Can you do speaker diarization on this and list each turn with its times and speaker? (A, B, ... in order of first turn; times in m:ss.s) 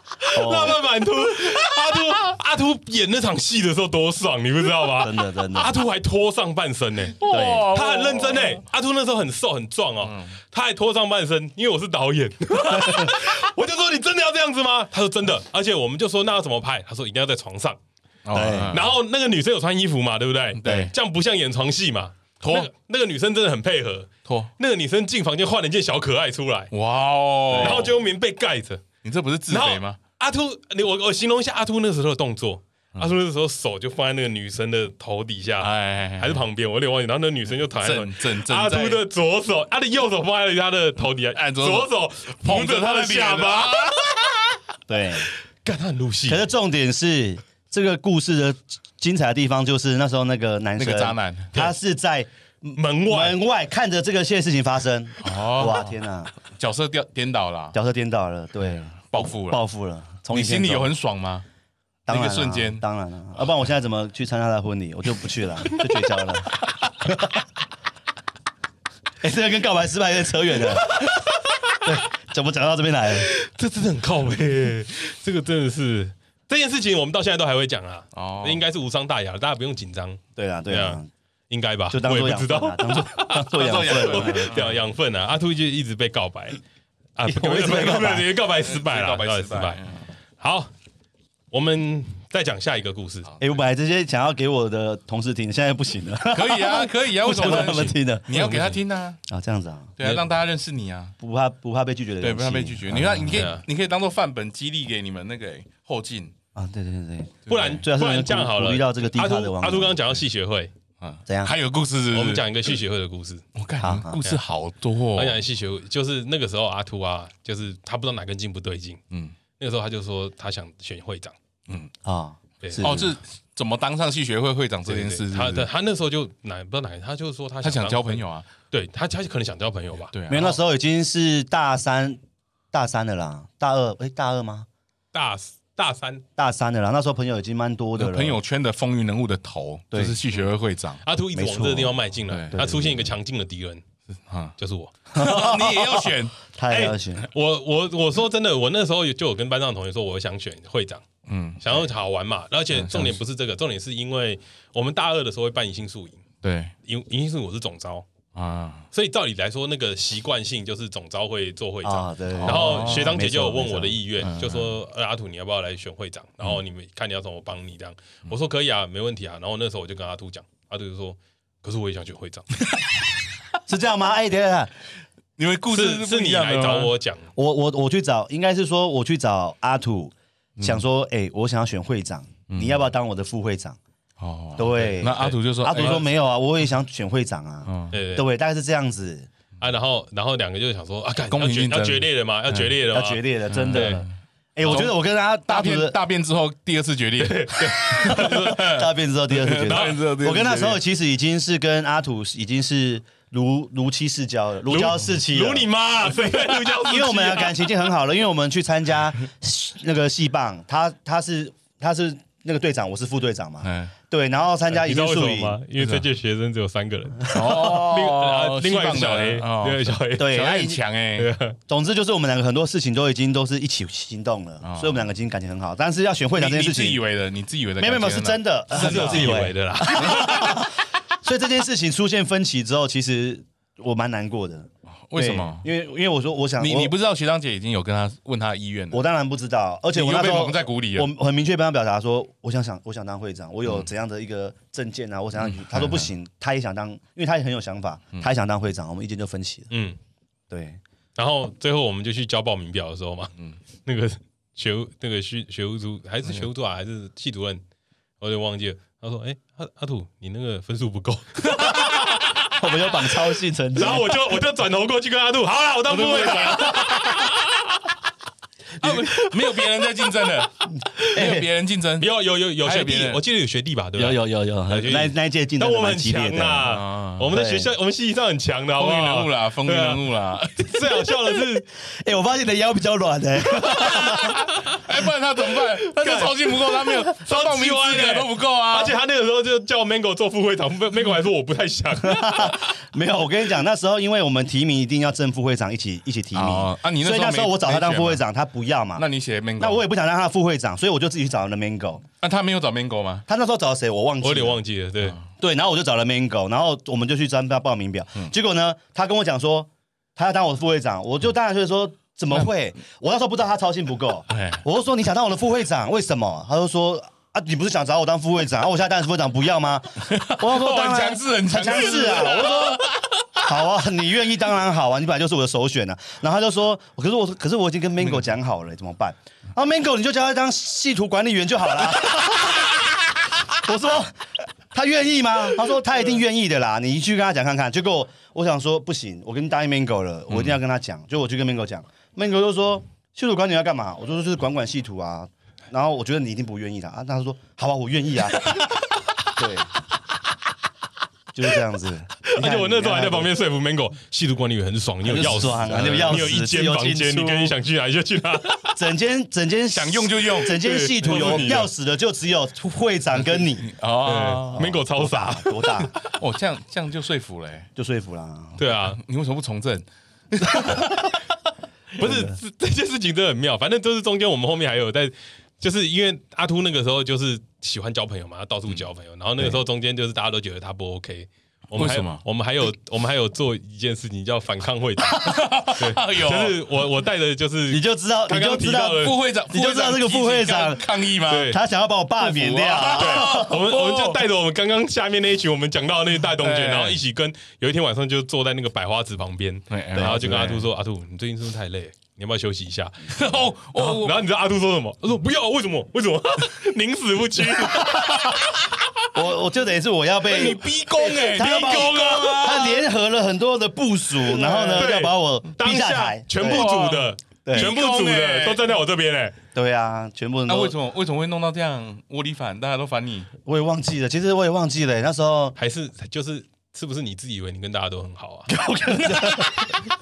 0:00.2-0:17.8 A
0:00.3-0:00.8 B
0:05.0-0:05.7 B
0:07.2-0:08.6 C
0:07.3-0:07.7 B
0:10.0-0:10.4 C
0:18.2-0:18.9 C
0:18.3-0:18.8 B
0:18.7-0:26.7 A
0:20.6-0:20.9 C
0:20.6-0:20.9 B
0:22.4-0:22.7 C
0:24.2-0:24.5 C
0:26.7-0:28.0 C
0:27.5-0:28.8 A
0:29.0-0:30.0 C
0:29.5-0:44.1 A
0:35.6-0:36.4 C
0:37.8-0:39.0 C
0:41.3-0:44.1 C
0:44.9-0:45.3 B
0:45.6-0:46.5 A
0:46.3-0:56.3 B
0:50.8-0:51.5 C
0:52.7-0:53.4 A
0:55.2-0:55.9 C
0:56.6-0:57.8 C
0:57.7-1:00.9 B
0:59.0-0:59.6 C
1:00.3-1:01.4 C
1:02.0-1:07.4 B
1:02.1-1:02.8 C
1:09.2-1:11.3 B
1:11.8-1:13.3 B
1:13.2-1:26.6 A
1:18.1-1:18.6 C
1:20.4-1:21.1 B
1:21.9-1:24.6 B
1:23.5-1:24.7 C
1:27.2-1:29.8 A
1:27.2-1:28.3 B
1:28.5-1:30.0 C
1:30.4-1:30.7 A
1:31.5-1:33.3 A
1:33.4-1:39.9 B
1:36.3-1:39.2 C
1:37.4-1:37.9 A
1:40.0-1:41.1 C
1:41.2-1:43.5 B
1:42.2-1:46.3 C
1:43.3-1:43.6 A
1:46.5-1:50.0 B
1:47.5-1:50.7 A
1:51.0-1:52.7 C
1:51.2-1:51.5 B
1:52.1-1:53.4 A
1:53.5-1:55.4 C
1:53.8-1:54.2 B
1:55.1-1:59.0 A
1:59.6-2:01.4 A
2:02.0-2:03.1 B
2:02.6-2:02.9 A
2:02.8-2:05.7 C
2:04.8-2:10.1 A
2:07.6-2:08.5 C
2:10.1-2:10.6 C
2:10.3-2:12.2 B
2:12.7-2:14.7 B
2:15.1-2:16.2 A
2:16.4-2:18.4 B
2:18.0-2:21.0 C
2:19.9-2:20.2 B
2:21.0-2:23.8 A
2:21.3-2:22.0 B
2:22.3-2:22.6 C
2:22.5-2:23.1 B
2:24.1-2:24.5 C
2:24.6-2:24.9 A
2:25.1-2:27.2 B
2:25.1-2:26.4 C
2:26.7-2:31.0 A
2:31.2-2:31.8 C
2:31.6-2:36.2 A
2:32.7-2:33.2 C
2:36.4-2:36.7 C
2:36.8-2:38.0 A
2:38.3-2:38.9 C
2:38.9-2:52.5 A
2:41.8-2:44.0 B
2:42.4-2:43.2 C
2:44.2-2:44.7 C
2:53.7-2:54.7 B
2:55.4-2:56.9 C
2:55.7-2:57.3 A
2:57.4-3:03.8 B
3:00.6-3:00.8 C
3:02.5-3:02.9 C
3:04.2-3:06.1 C
3:04.6-3:09.3 B
3:05.1-3:06.0 A
3:07.7-3:08.0 C
3:07.9-3:08.3 A
3:09.6-3:14.0 A
3:11.3-3:12.7 C
3:12.9-3:16.0 B
3:13.5-3:14.1 C
3:14.6-3:20.8 C
3:17.2-3:18.7 A
3:17.9-3:25.7 B
3:19.6-3:20.0 A
3:24.7-3:27.7 A
3:26.5-3:35.6 B
3:33.6-3:33.9 C
3:34.7-3:40.3 A
3:35.8-3:36.0 C
3:37.3-3:41.3 C
3:40.2-3:40.8 B
3:41.2-3:41.6 A
3:41.7-3:47.0 B
3:44.6-3:45.1 C
3:46.4-3:50.6 C
3:47.8-3:56.9 B
3:48.7-3:50.6 A
3:55.1-3:55.6 C
3:56.6-3:59.0 C
3:58.9-4:09.7 B
3:59.9-4:01.1 C
4:05.4-4:06.1 C
4:09.7-4:10.0 A
4:10.5-4:10.8 B
4:11.2-4:13.3 A
4:13.8-4:17.6 A
4:18.2-4:22.2 A
4:21.8-4:24.2 B
4:23.7-4:27.6 A
4:25.9-4:26.9 C
4:26.5-4:27.1 B
4:28.8-4:33.2 C
4:29.1-4:29.7 A
4:30.7-4:31.5 B
4:31.0-4:31.3 A
4:32.0-4:41.7 A
4:34.0-4:36.7 B
4:36.6-4:37.3 C
4:37.3-4:37.7 B
4:38.8-4:41.0 C
4:41.9-4:44.4 B
4:43.6-4:49.0 C
4:45.8-4:52.7 A
4:52.0-4:59.0 B
4:56.3-4:58.2 C
4:59.0-4:59.8 C
4:59.6-5:02.0 B
5:02.2-5:03.2 C
5:03.3-5:04.6 B
5:04.2-5:05.2 A
5:05.4-5:22.8 B
5:14.3-5:14.6 C
5:20.1-5:23.2 C
5:23.4-5:34.2 B
5:34.7-5:48.6 B
5:49.3-5:49.7 B
5:51.3-5:53.3 B
5:52.2-5:58.7 A
5:55.0-5:57.5 B
5:55.6-5:56.3 C
5:58.7-6:03.7 B
5:59.7-6:01.6 C
6:00.5-6:01.7 A
6:03.6-6:04.7 C
6:04.0-6:06.1 A
6:04.5-6:05.9 B
6:06.0-6:07.7 C
6:07.8-6:08.6 B
6:08.6-6:09.0 A
6:08.7-6:11.1 C
6:10.4-6:10.9 B
6:12.0-6:12.4 B
6:12.0-6:29.1 A
6:21.7-6:22.2 C
6:25.1-6:26.6 C
6:27.7-6:33.6 B
6:29.0-6:31.6 C
6:31.3-6:31.6 A
6:32.2-6:34.2 C
6:32.9-6:48.4 A
6:36.4-6:37.0 C
6:39.7-6:40.6 C
6:39.9-6:40.6 B
6:43.1-6:44.2 C
6:49.1-6:56.7 B
6:50.2-6:52.9 C
6:54.3-6:59.3 A
6:54.4-6:54.8 C
6:56.4-6:58.7 C
6:57.4-6:57.7 B
6:59.5-7:00.8 B
7:00.5-7:03.3 C
7:03.4-7:05.5 B
7:05.6-7:08.5 A
7:08.5-7:09.8 B